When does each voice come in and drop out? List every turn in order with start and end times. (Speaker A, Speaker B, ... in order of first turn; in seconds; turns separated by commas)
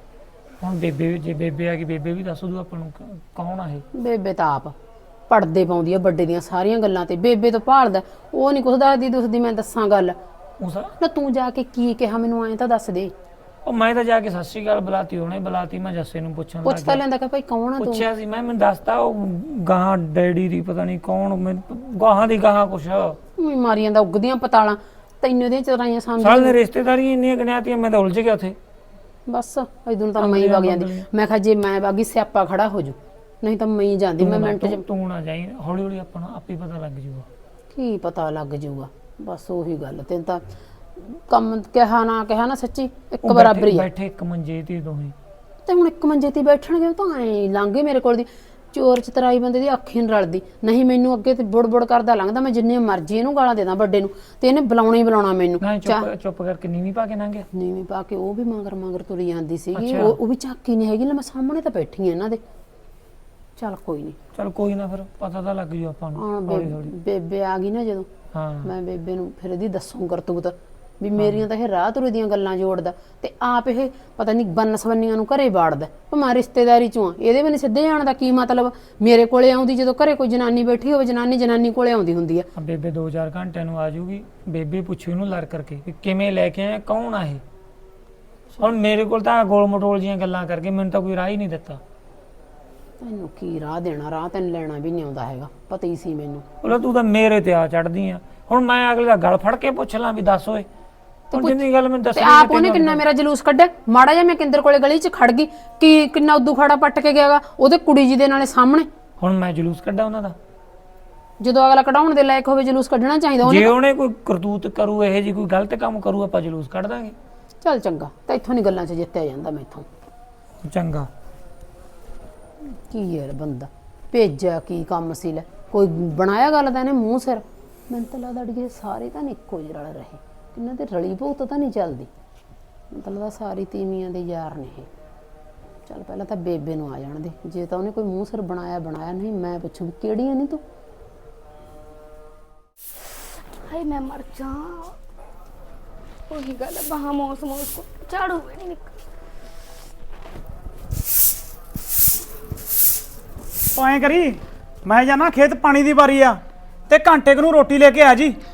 Speaker A: 0.6-3.9, Speaker B: 3.9-4.8, Speaker B: 5.3-10.2, Speaker A: 10.6-10.9, Speaker B: 11.0-13.1, Speaker A: 13.7-17.0, Speaker B: 16.6-18.1, Speaker A: 17.8-23.2, Speaker B: 23.4-26.6, Speaker A: 26.2-28.6, Speaker B: 29.3-34.8, Speaker A: 30.2-31.1, Speaker A: 34.2-37.3, Speaker B: 37.7-40.4, Speaker B: 41.0-43.9, Speaker A: 43.2-45.1, Speaker B: 45.7-56.1, Speaker A: 55.6-57.5, Speaker B: 57.5-62.4, Speaker A: 59.8-60.2, Speaker B: 63.6-64.2, Speaker A: 64.3-66.9, Speaker B: 66.2-68.1, Speaker A: 68.3-68.7, Speaker B: 68.6-82.5, Speaker A: 71.2-71.4, Speaker A: 82.5-87.4, Speaker A: 88.6-91.8, Speaker B: 93.0-96.5, Speaker A: 96.6-100.7, Speaker B: 101.3-101.6, Speaker A: 101.3-103.0, Speaker B: 102.1-108.9, Speaker A: 109.2-110.3, Speaker B: 111.4-113.7, Speaker A: 113.4-117.2, Speaker B: 117.6-119.9, Speaker A: 120.6-121.1, Speaker B: 122.6-132.1, Speaker B: 132.9-134.9, Speaker B: 135.8-140.6, Speaker C: 143.7-144.9, Speaker C: 146.3-148.9, Speaker D: 153.8-158.4